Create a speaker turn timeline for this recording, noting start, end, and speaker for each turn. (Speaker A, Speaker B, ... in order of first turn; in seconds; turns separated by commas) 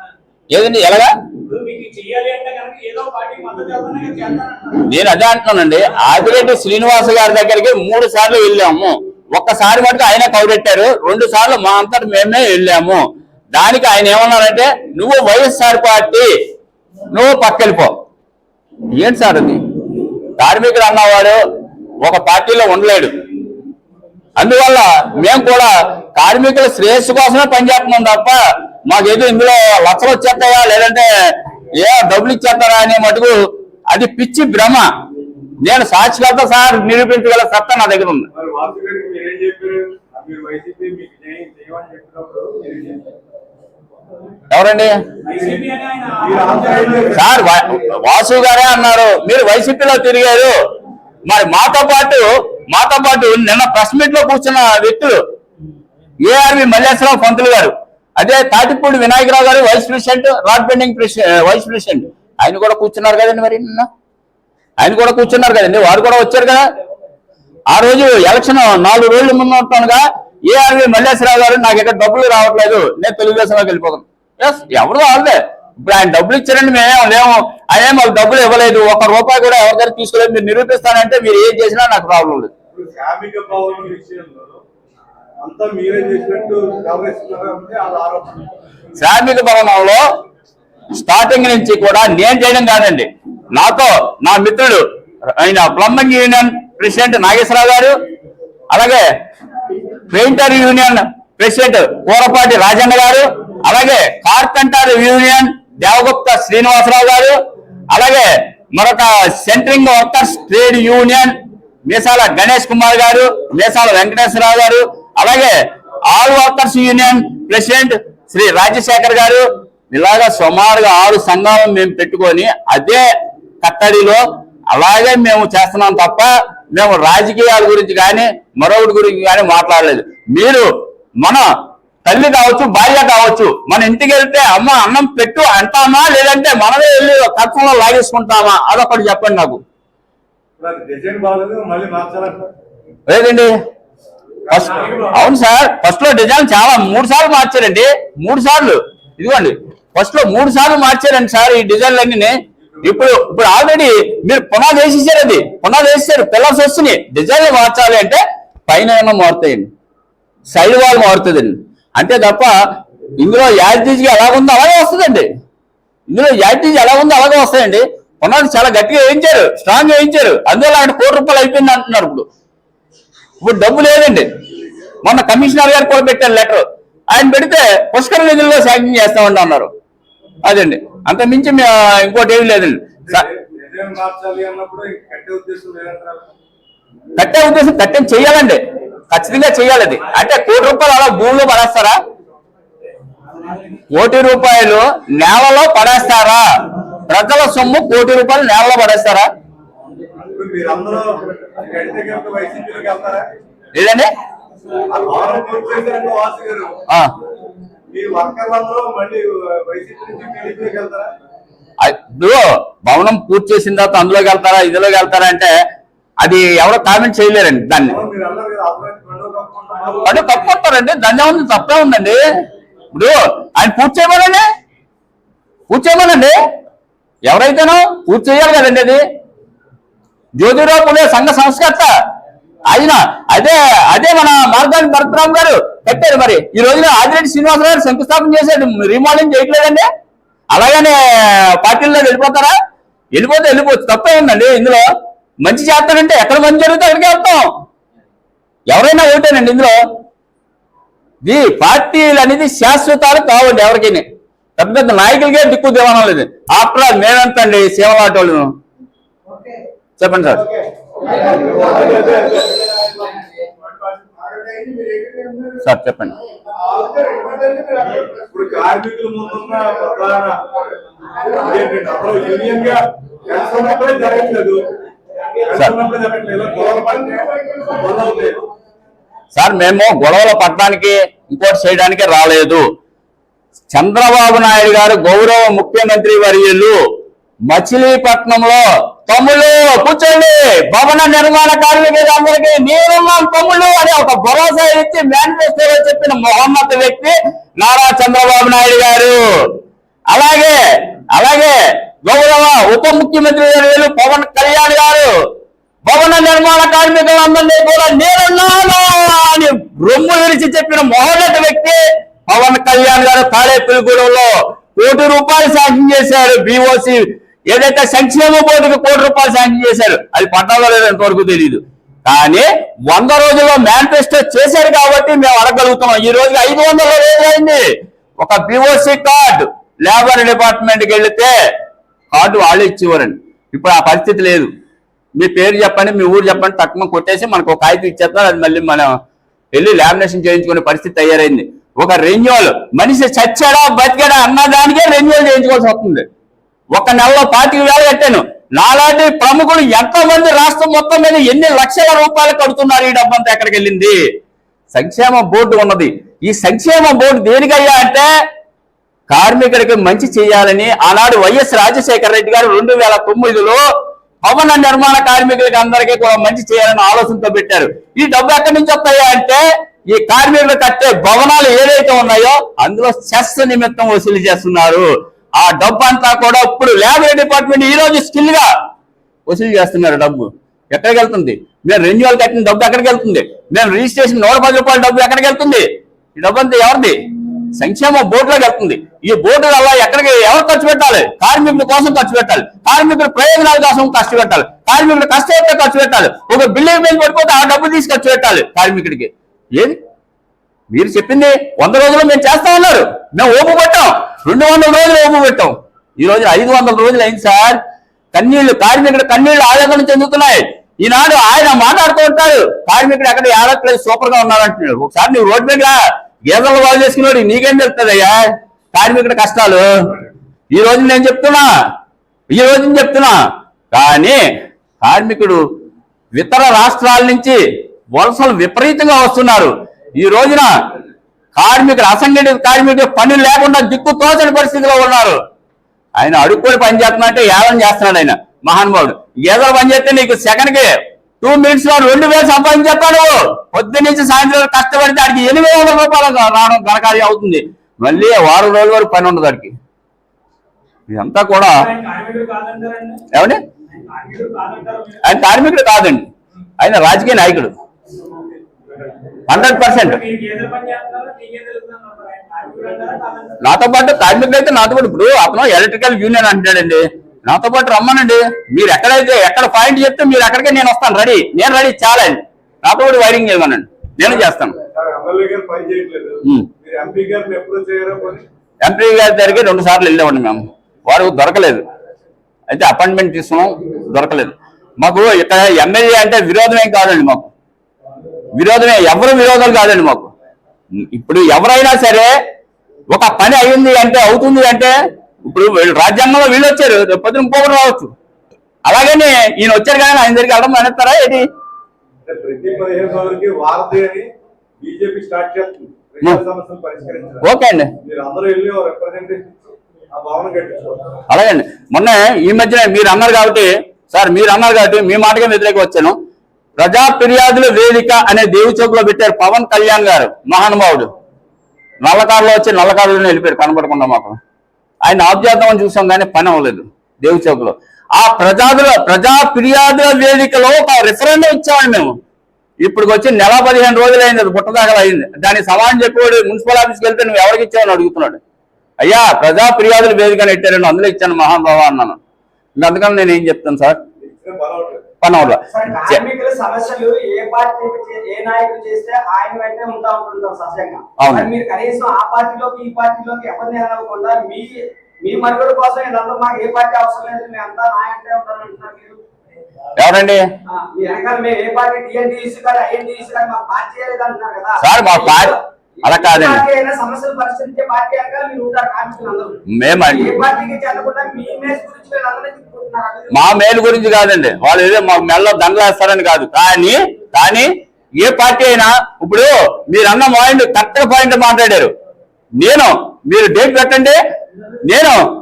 Speaker A: 0.5-1.1, Speaker B: 1.4-4.8, Speaker A: 4.8-16.3, Speaker A: 17.1-17.9, Speaker A: 18.9-19.6, Speaker A: 20.4-21.4, Speaker A: 22.0-23.1, Speaker A: 24.4-31.1, Speaker A: 31.7-33.4, Speaker A: 33.9-34.9, Speaker A: 35.6-38.3, Speaker C: 38.3-43.0, Speaker A: 44.5-44.9, Speaker B: 45.2-47.1, Speaker C: 46.2-47.5, Speaker A: 47.1-50.5, Speaker A: 51.2-55.2, Speaker A: 56.2-63.9, Speaker A: 64.8-66.7, Speaker A: 67.7-82.5, Speaker C: 82.7-84.6, Speaker C: 85.4-88.4, Speaker A: 89.0-90.0, Speaker A: 90.9-94.8, Speaker A: 95.3-98.0, Speaker A: 98.7-99.1, Speaker A: 100.1-107.4, Speaker A: 107.9-115.5, Speaker A: 116.1-123.1, Speaker A: 123.6-130.7, Speaker A: 132.1-139.6, Speaker C: 140.6-142.5, Speaker A: 143.1-143.5, Speaker C: 144.4-145.1, Speaker A: 144.5-159.7, Speaker B: 144.8-145.1, Speaker A: 160.5-162.5, Speaker A: 163.2-165.3, Speaker A: 166.1-172.2, Speaker A: 173.4-174.3, Speaker A: 175.0-179.7, Speaker A: 180.4-183.2, Speaker C: 183.1-186.3, Speaker A: 187.2-192.0, Speaker A: 193.9-196.4, Speaker A: 197.1-199.3, Speaker C: 200.2-203.2, Speaker A: 203.7-204.1, Speaker C: 204.9-206.8, Speaker C: 207.9-211.1, Speaker A: 211.8-215.5, Speaker A: 216.2-218.0, Speaker C: 217.8-220.3, Speaker A: 220.0-222.2, Speaker A: 222.9-224.4, Speaker A: 225.7-226.3, Speaker A: 227.2-229.0, Speaker A: 230.4-231.9, Speaker A: 232.7-239.9, Speaker A: 240.5-242.6, Speaker A: 243.1-244.8, Speaker A: 245.4-247.5, Speaker A: 248.7-249.8, Speaker A: 251.2-254.0, Speaker A: 254.6-258.5, Speaker A: 260.0-260.5, Speaker C: 261.2-262.8, Speaker A: 265.6-266.1, Speaker C: 267.9-270.4, Speaker C: 271.1-274.7, Speaker C: 275.4-278.4, Speaker A: 279.3-282.6, Speaker A: 283.7-286.8, Speaker A: 287.5-299.5, Speaker A: 300.1-300.6, Speaker A: 301.1-305.1, Speaker A: 305.9-327.6, Speaker A: 328.2-331.3, Speaker A: 332.1-334.5, Speaker A: 335.1-338.9, Speaker A: 339.5-346.1, Speaker A: 346.7-354.0, Speaker A: 354.7-358.1, Speaker A: 359.1-363.6, Speaker A: 364.2-378.5, Speaker A: 379.3-387.0, Speaker A: 387.5-399.8, Speaker A: 400.7-407.6, Speaker A: 408.1-415.8, Speaker A: 416.3-418.2, Speaker A: 418.7-419.9, Speaker A: 420.5-421.5, Speaker A: 422.3-423.1, Speaker A: 423.7-424.2, Speaker A: 424.8-425.4, Speaker A: 426.1-427.4, Speaker A: 427.9-430.5, Speaker A: 431.4-435.2, Speaker A: 436.0-449.6, Speaker A: 450.9-451.7, Speaker B: 451.5-453.0, Speaker A: 453.1-453.4, Speaker B: 453.7-455.2, Speaker A: 455.0-456.1, Speaker A: 456.6-457.5, Speaker A: 459.3-460.0, Speaker B: 459.5-463.4, Speaker A: 463.4-474.6, Speaker C: 474.7-478.2, Speaker A: 478.6-481.6, Speaker A: 482.5-487.3, Speaker A: 488.3-490.1, Speaker A: 490.8-492.1, Speaker A: 492.9-497.9, Speaker A: 498.6-501.2, Speaker C: 502.0-507.3, Speaker A: 507.2-507.7, Speaker C: 507.8-510.9, Speaker A: 511.1-516.0, Speaker A: 516.6-520.9, Speaker A: 521.8-524.2, Speaker A: 524.8-532.0, Speaker A: 532.6-538.2, Speaker A: 538.8-542.0, Speaker A: 542.6-543.8, Speaker C: 544.0-544.9, Speaker A: 545.0-546.0, Speaker D: 545.4-559.0, Speaker A: 551.0-551.3, Speaker A: 559.8-560.2, Speaker D: 560.5-573.3, Speaker A: 564.6-566.4, Speaker A: 569.5-570.1, Speaker A: 573.1-577.5, Speaker A: 578.0-581.7, Speaker A: 582.4-584.0, Speaker A: 584.6-585.0